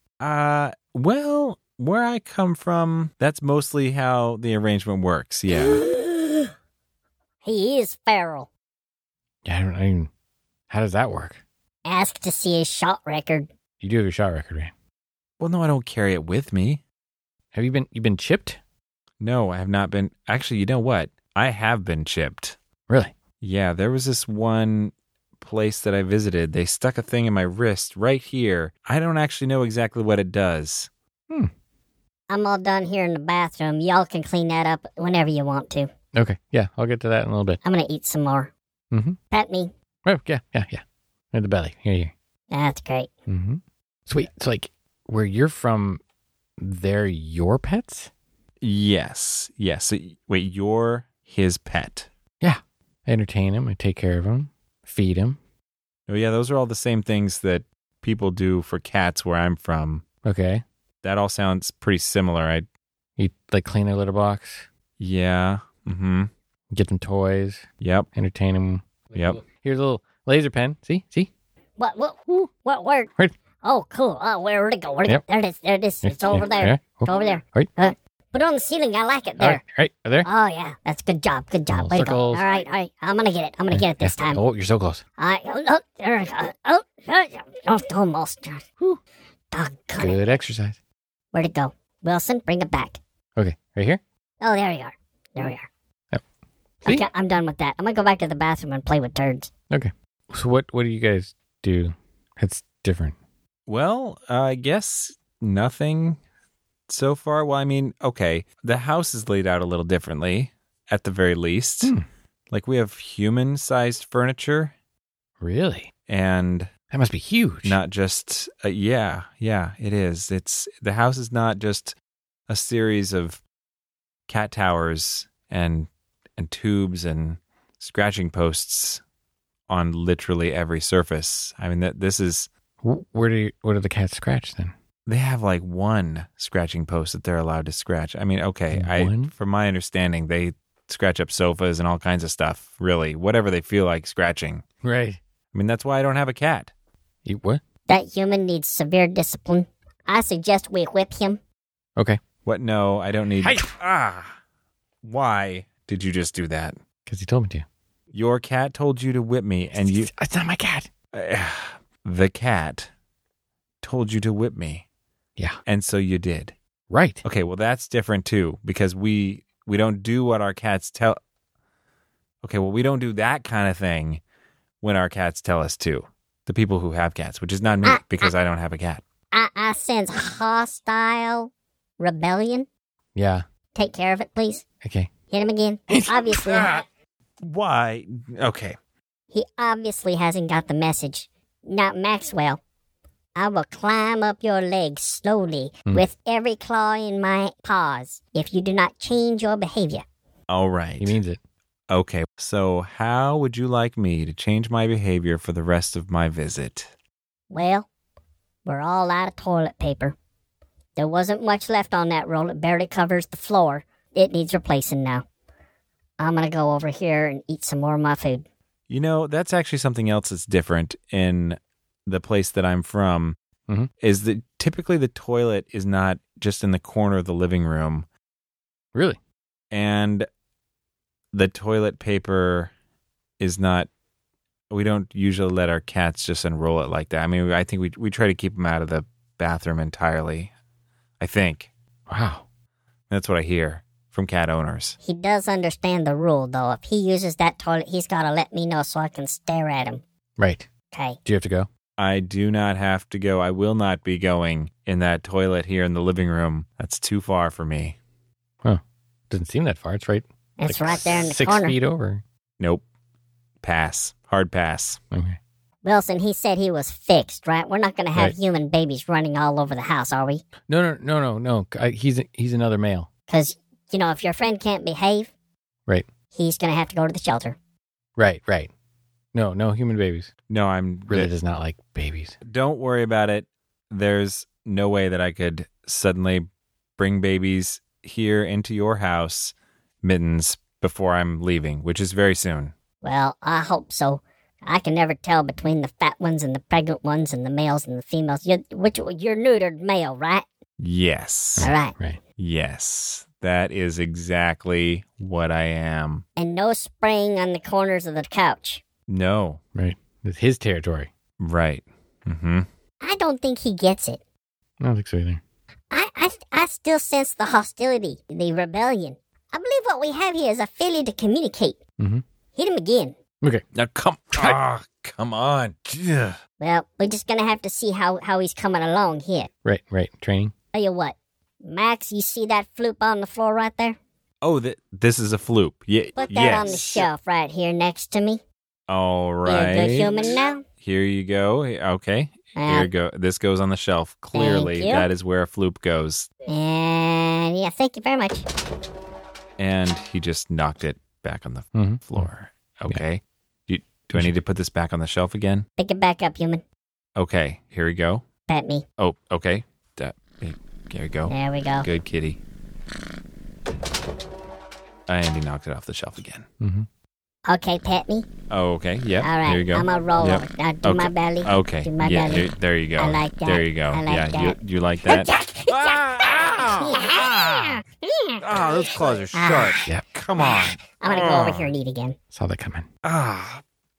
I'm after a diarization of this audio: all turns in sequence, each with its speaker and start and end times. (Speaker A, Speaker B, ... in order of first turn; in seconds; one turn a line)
Speaker A: 0.2-5.8
Speaker B: 7.4-8.5
Speaker C: 9.4-10.1
Speaker C: 10.7-11.4
Speaker B: 11.8-13.5
Speaker C: 13.8-14.7
Speaker A: 15.4-16.8
Speaker C: 17.5-18.6
Speaker A: 19.2-22.6
Speaker A: 23.4-30.9
Speaker B: 32.3-35.9
Speaker C: 36.1-37.6
Speaker B: 37.6-38.5
Speaker C: 38.9-39.2
Speaker B: 39.3-39.7
Speaker C: 40.1-42.1
Speaker B: 42.5-43.1
Speaker C: 43.3-46.0
Speaker C: 46.6-48.1
Speaker A: 48.6-52.1
Speaker C: 52.4-55.4
Speaker A: 56.1-60.0
Speaker C: 60.2-60.6
Speaker A: 61.0-62.7
Speaker C: 63.2-64.7
Speaker A: 65.0-66.3
Speaker C: 66.7-71.3
Speaker A: 67.8-68.1
Speaker A: 69.1-69.4
Speaker B: 71.8-73.1
Speaker B: 73.6-79.6
Speaker C: 76.0-77.7
Speaker C: 79.4-80.3
Speaker B: 80.2-84.4
Speaker C: 81.7-82.5
Speaker C: 83.7-85.0
Speaker B: 85.2-88.7
Speaker B: 89.5-90.2
Speaker C: 90.0-90.8
Speaker B: 91.3-93.0
Speaker C: 93.4-94.0
Speaker B: 94.4-95.7
Speaker B: 96.8-99.5
Speaker C: 99.7-103.2
Speaker A: 103.7-106.2
Speaker A: 106.9-111.9
Speaker A: 112.5-114.7
Speaker C: 115.4-115.9
Speaker A: 116.1-116.7
Speaker C: 116.9-117.8
Speaker A: 117.7-122.0
Speaker A: 122.5-123.4
Speaker A: 124.3-129.0
Speaker A: 129.7-132.5
Speaker C: 132.8-134.7
Speaker A: 135.1-144.6
Speaker C: 138.7-139.3
Speaker C: 144.8-145.2
Speaker A: 145.5-146.7
Speaker C: 147.2-147.6
Speaker B: 147.9-151.4
Speaker A: 152.5-154.4
Speaker C: 153.4-153.7
Speaker A: 155.0-156.8
Speaker C: 157.1-157.7
Speaker A: 158.1-160.1
Speaker C: 159.7-160.9
Speaker A: 161.1-162.9
Speaker A: 163.8-164.8
Speaker A: 165.7-166.6
Speaker C: 166.9-167.2
Speaker A: 167.2-171.2
Speaker A: 172.4-174.2
Speaker A: 174.8-179.0
Speaker B: 177.8-178.3
Speaker B: 179.3-182.7
Speaker C: 183.2-183.4
Speaker B: 183.8-184.6
Speaker C: 184.8-185.1
Speaker B: 185.3-186.8
Speaker C: 185.9-186.3
Speaker A: 187.4-188.8
Speaker B: 189.3-192.6
Speaker B: 193.4-200.0
Speaker A: 200.5-201.2
Speaker C: 201.0-201.4
Speaker A: 201.9-206.9
Speaker B: 207.5-207.9
Speaker B: 208.7-210.2
Speaker B: 211.0-215.2
Speaker B: 216.2-218.5
Speaker A: 218.9-223.4
Speaker A: 224.0-228.1
Speaker A: 229.7-230.3
Speaker A: 231.3-232.7
Speaker A: 233.4-233.9
Speaker A: 234.7-240.5
Speaker A: 241.2-241.7
Speaker C: 242.1-242.4
Speaker A: 243.1-245.0
Speaker B: 245.0-250.0
Speaker C: 250.4-250.7
Speaker B: 250.9-251.2
Speaker C: 251.2-251.7
Speaker A: 252.0-258.0
Speaker C: 258.6-262.2
Speaker B: 260.6-261.8
Speaker A: 263.6-265.0
Speaker C: 265.1-265.4
Speaker B: 265.8-270.4
Speaker C: 270.7-273.1
Speaker B: 273.3-275.3
Speaker B: 276.3-277.6
Speaker C: 278.2-278.7
Speaker C: 279.3-280.3
Speaker A: 280.5-281.3
Speaker C: 281.1-282.4
Speaker A: 282.5-286.5
Speaker A: 287.0-292.7
Speaker B: 293.0-300.5
Speaker A: 300.8-301.7
Speaker C: 301.6-302.2
Speaker B: 301.6-301.9
Speaker A: 302.4-306.2
Speaker B: 306.4-308.8
Speaker A: 309.1-309.6
Speaker C: 309.8-311.1
Speaker A: 311.4-312.7
Speaker B: 313.0-314.2
Speaker C: 314.8-315.4
Speaker B: 315.9-321.8
Speaker C: 322.0-322.2
Speaker B: 322.5-323.2
Speaker A: 323.7-326.4
Speaker B: 326.6-329.5
Speaker C: 329.6-330.5
Speaker B: 330.7-334.0
Speaker A: 334.4-337.1
Speaker B: 336.2-338.4
Speaker A: 338.9-340.2
Speaker B: 339.5-340.6
Speaker A: 340.8-346.3
Speaker B: 342.6-342.9
Speaker B: 344.3-345.1
Speaker B: 346.5-348.5
Speaker A: 349.6-355.7
Speaker C: 351.8-352.2
Speaker B: 355.8-356.6
Speaker A: 357.2-358.2
Speaker B: 358.5-358.9
Speaker A: 359.0-362.4
Speaker B: 361.3-361.9
Speaker A: 365.1-366.5
Speaker C: 366.6-366.9
Speaker B: 367.5-368.3
Speaker A: 368.5-377.8
Speaker B: 369.2-382.2
Speaker A: 378.4-381.7
Speaker C: 382.3-382.9
Speaker A: 383.0-383.6